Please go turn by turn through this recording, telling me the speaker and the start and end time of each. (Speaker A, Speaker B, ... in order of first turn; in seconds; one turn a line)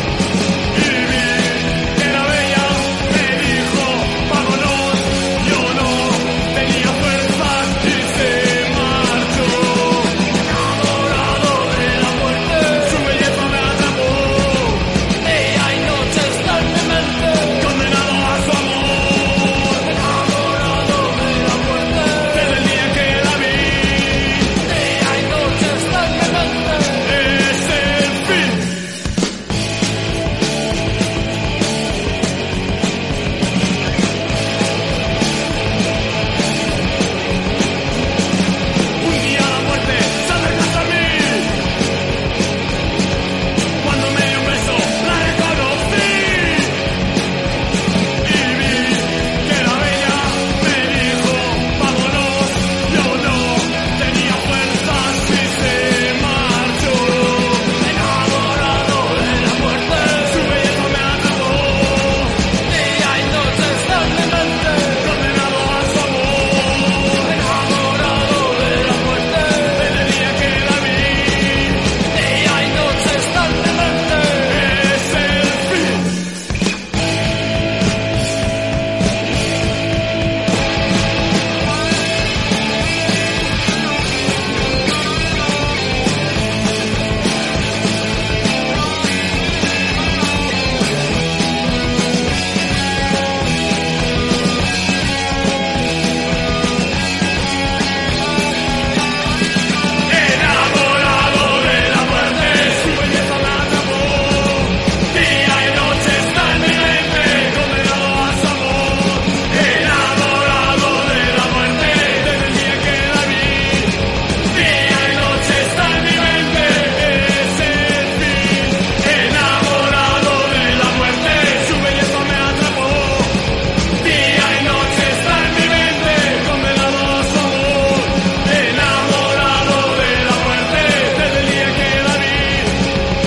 Speaker A: 0.7-29.0
Speaker A: 39.0-41.6
Speaker A: 43.8-46.9
Speaker A: 48.2-76.2
Speaker A: 100.1-132.9